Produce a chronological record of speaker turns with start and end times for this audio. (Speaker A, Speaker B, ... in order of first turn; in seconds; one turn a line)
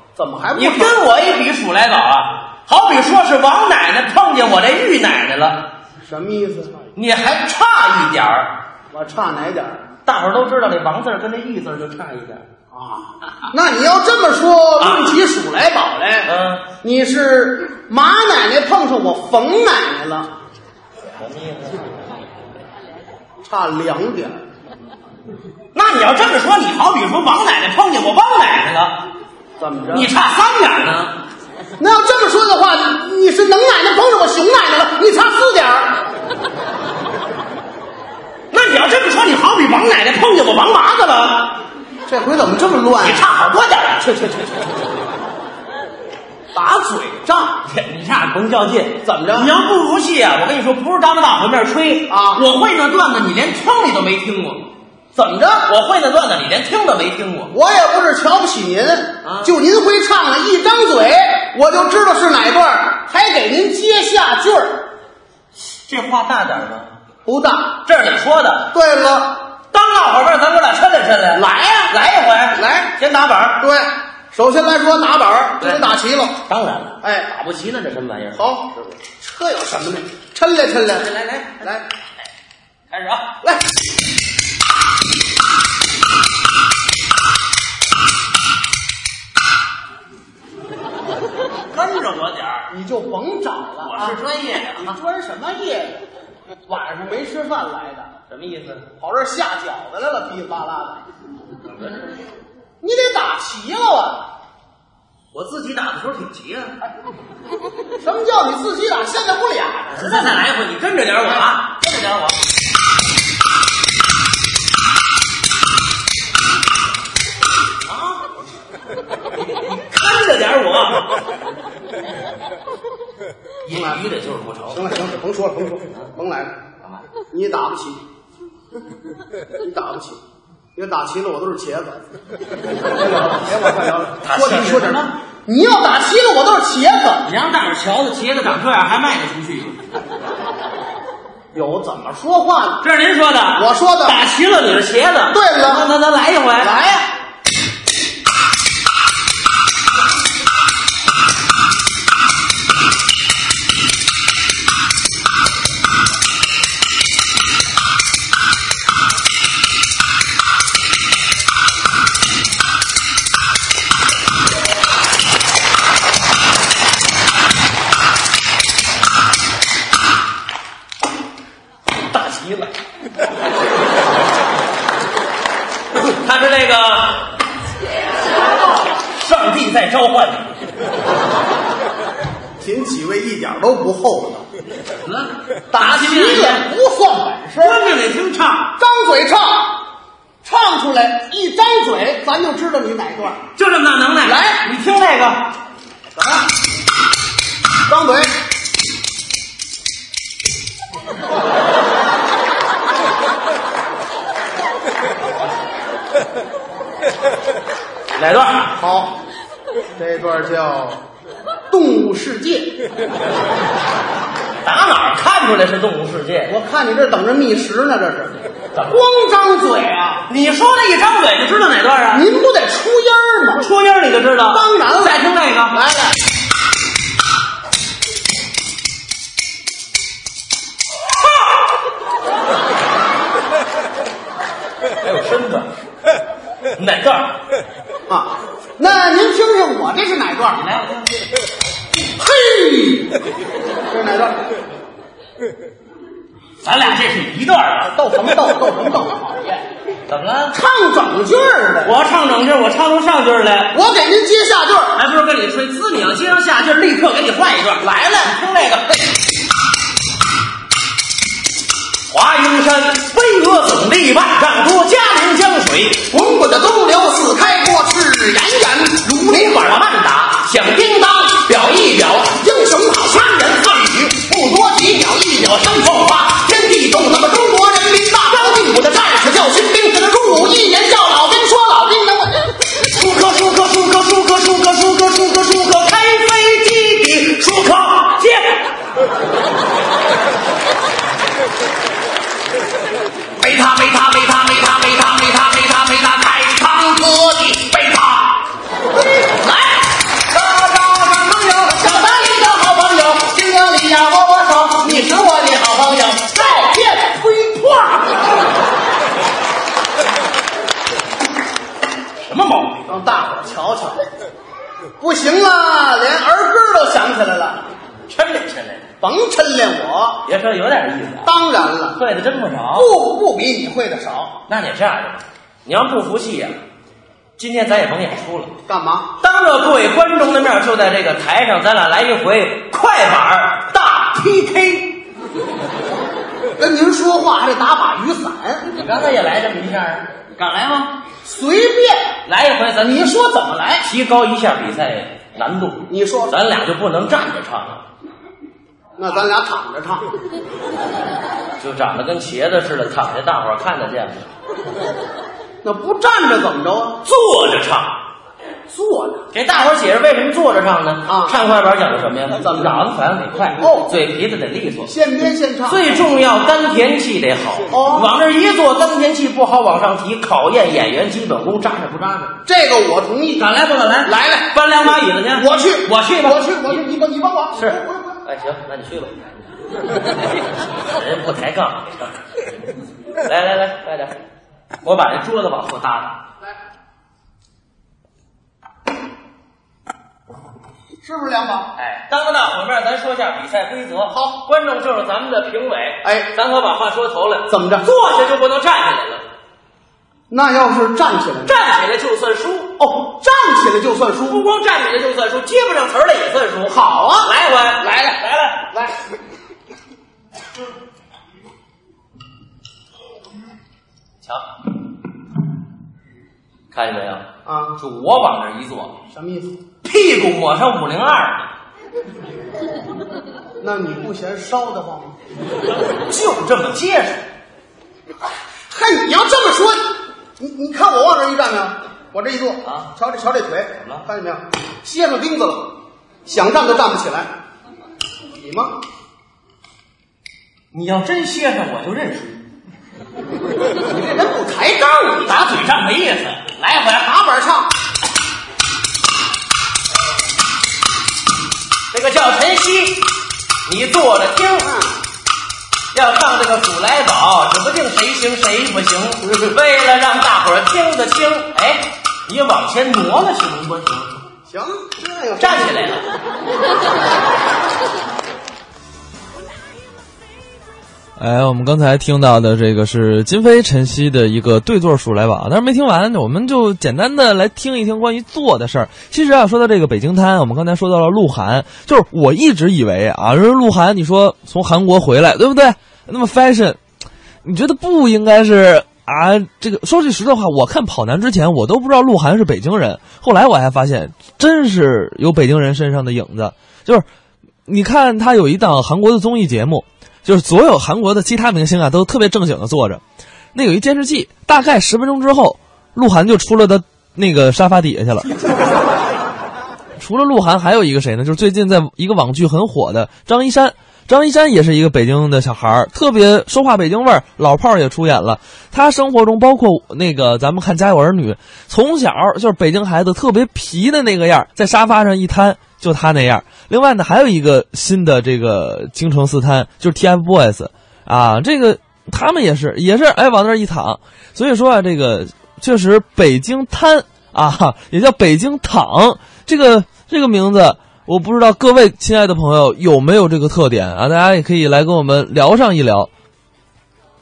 Speaker A: 0.1-1.0
Speaker B: 0.6-5.6
Speaker A: 6.0-6.8
Speaker B: 6.9-8.5
Speaker A: 8.9-9.8
Speaker B: 10.0-12.4
Speaker A: 12.7-20.3
Speaker B: 14.8-15.2
Speaker B: 16.2-16.7
Speaker B: 21.2-21.8
Speaker A: 23.4-24.4
Speaker B: 25.7-29.0
Speaker A: 29.6-30.1
Speaker B: 29.9-31.2
Speaker A: 31.8-36.0
Speaker B: 38.5-41.6
Speaker A: 42.1-43.2
Speaker B: 43.0-44.8
Speaker A: 46.5-47.6
Speaker B: 47.6-54.7
Speaker A: 49.0-49.5
Speaker A: 52.1-52.5
Speaker A: 55.1-55.7
Speaker B: 55.6-57.5
Speaker A: 57.5-64.9
Speaker B: 59.2-59.5
Speaker B: 65.9-66.9
Speaker A: 67.2-67.8
Speaker B: 67.8-68.7
Speaker A: 68.7-69.4
Speaker B: 69.7-73.6
Speaker A: 71.3-71.9
Speaker A: 72.5-72.9
Speaker A: 73.6-76.4
Speaker B: 75.6-75.9
Speaker B: 76.5-79.0
Speaker A: 77.0-77.3
Speaker A: 78.3-78.7
Speaker A: 79.2-81.9
Speaker B: 80.9-81.7
Speaker B: 82.9-83.3
Speaker B: 91.7-92.7
Speaker A: 92.7-94.2
Speaker B: 93.8-95.0
Speaker A: 94.7-96.0
Speaker A: 96.7-98.1
Speaker B: 98.3-98.9
Speaker A: 99.0-101.0
Speaker A: 102.8-104.3
Speaker B: 105.3-106.7
Speaker A: 108.0-110.5
Speaker B: 109.9-112.4
Speaker B: 117.9-118.2
Speaker B: 119.5-121.3
Speaker B: 123.6-125.0
Speaker A: 123.7-124.0
Speaker A: 124.7-126.5
Speaker A: 127.3-128.0
Speaker A: 129.6-130.2
Speaker A: 130.7-132.0
Speaker A: 132.9-137.3
Speaker B: 134.2-135.1
Speaker B: 137.2-139.8
Speaker A: 141.5-142.8
Speaker B: 142.8-146.8
Speaker A: 143.5-144.2
Speaker A: 145.3-145.9
Speaker A: 146.6-147.1
Speaker B: 172.1-172.8
Speaker B: 176.2-177.3
Speaker B: 179.1-180.5
Speaker A: 182.6-184.4
Speaker B: 185.1-186.6
Speaker A: 185.7-187.8
Speaker B: 187.6-188.7
Speaker A: 188.8-189.8
Speaker A: 190.4-193.4
Speaker B: 193.5-195.5
Speaker A: 194.2-194.7
Speaker A: 196.2-196.4
Speaker A: 197.9-198.3
Speaker B: 208.1-208.7
Speaker A: 208.8-209.1
Speaker A: 209.9-211.0
Speaker A: 211.7-212.7
Speaker B: 214.6-216.5
Speaker A: 216.5-220.2
Speaker B: 218.7-219.0
Speaker B: 220.3-222.3
Speaker A: 222.1-223.7
Speaker B: 223.6-225.8
Speaker A: 224.5-226.1
Speaker B: 235.0-235.7
Speaker B: 236.8-237.4
Speaker A: 238.1-240.6
Speaker B: 240.5-241.2
Speaker A: 242.2-243.2
Speaker A: 243.9-244.4
Speaker B: 246.6-247.9
Speaker A: 247.9-249.6
Speaker B: 250.1-250.6
Speaker A: 250.5-251.9
Speaker B: 251.8-253.8
Speaker A: 253.7-254.9
Speaker B: 254.9-259.1
Speaker A: 257.8-258.4
Speaker B: 262.1-266.1
Speaker A: 266.1-269.6
Speaker B: 269.1-272.3
Speaker A: 272.2-275.6
Speaker B: 274.3-276.5
Speaker A: 276.4-282.4
Speaker B: 282.8-288.7
Speaker B: 293.4-298.4
Speaker A: 299.3-299.7
Speaker B: 300.3-300.8
Speaker A: 300.5-308.2
Speaker B: 301.7-306.3
Speaker B: 312.2-313.0
Speaker A: 312.9-314.0
Speaker A: 315.0-317.7
Speaker B: 318.1-318.9
Speaker A: 319.0-320.2
Speaker B: 320.2-321.3
Speaker A: 321.2-322.0
Speaker B: 321.9-322.9
Speaker A: 322.7-324.4
Speaker B: 324.5-326.6
Speaker B: 327.4-328.5
Speaker A: 328.7-329.1
Speaker B: 329.2-335.0
Speaker A: 336.6-338.7
Speaker B: 338.7-340.9
Speaker A: 341.2-342.1
Speaker B: 342.2-343.1
Speaker A: 342.8-343.9
Speaker B: 343.8-347.8
Speaker A: 345.9-346.4
Speaker A: 349.0-350.1
Speaker B: 351.6-354.3
Speaker A: 355.6-357.0
Speaker B: 357.0-357.9
Speaker A: 358.7-359.2
Speaker B: 359.3-364.9
Speaker A: 361.1-361.3
Speaker A: 362.4-362.8
Speaker A: 363.6-363.9
Speaker A: 364.8-366.0
Speaker B: 365.6-372.3
Speaker A: 367.7-368.1
Speaker A: 372.4-373.5
Speaker B: 373.4-376.8
Speaker A: 374.0-374.5
Speaker A: 375.4-378.2
Speaker B: 377.5-379.1
Speaker B: 380.9-381.9
Speaker B: 383.2-384.2
Speaker B: 384.8-386.2
Speaker A: 391.0-391.7
Speaker B: 391.8-399.2
Speaker A: 394.1-394.4
Speaker A: 396.0-396.3
Speaker A: 397.5-397.9
Speaker A: 400.3-401.5
Speaker B: 401.4-402.8
Speaker A: 402.8-404.4
Speaker B: 404.2-408.7
Speaker A: 406.7-407.3
Speaker B: 416.7-417.2
Speaker A: 417.4-417.8
Speaker B: 417.8-419.0
Speaker A: 419.1-419.6
Speaker B: 419.8-421.5
Speaker A: 423.6-425.1
Speaker B: 426.1-427.2
Speaker A: 428.7-429.8
Speaker A: 430.4-435.7
Speaker B: 432.6-432.9
Speaker A: 436.2-437.3
Speaker A: 438.4-438.7
Speaker B: 440.7-442.4
Speaker A: 443.9-445.4
Speaker B: 445.2-447.1
Speaker A: 447.0-447.7
Speaker B: 451.9-453.1
Speaker B: 453.6-454.7
Speaker A: 454.6-454.9
Speaker B: 455.9-464.2
Speaker A: 464.5-465.9
Speaker B: 465.4-466.1
Speaker C: 471.2-486.8
Speaker C: 487.4-497.1
Speaker C: 497.7-503.0
Speaker C: 503.5-508.3
Speaker C: 510.0-546.1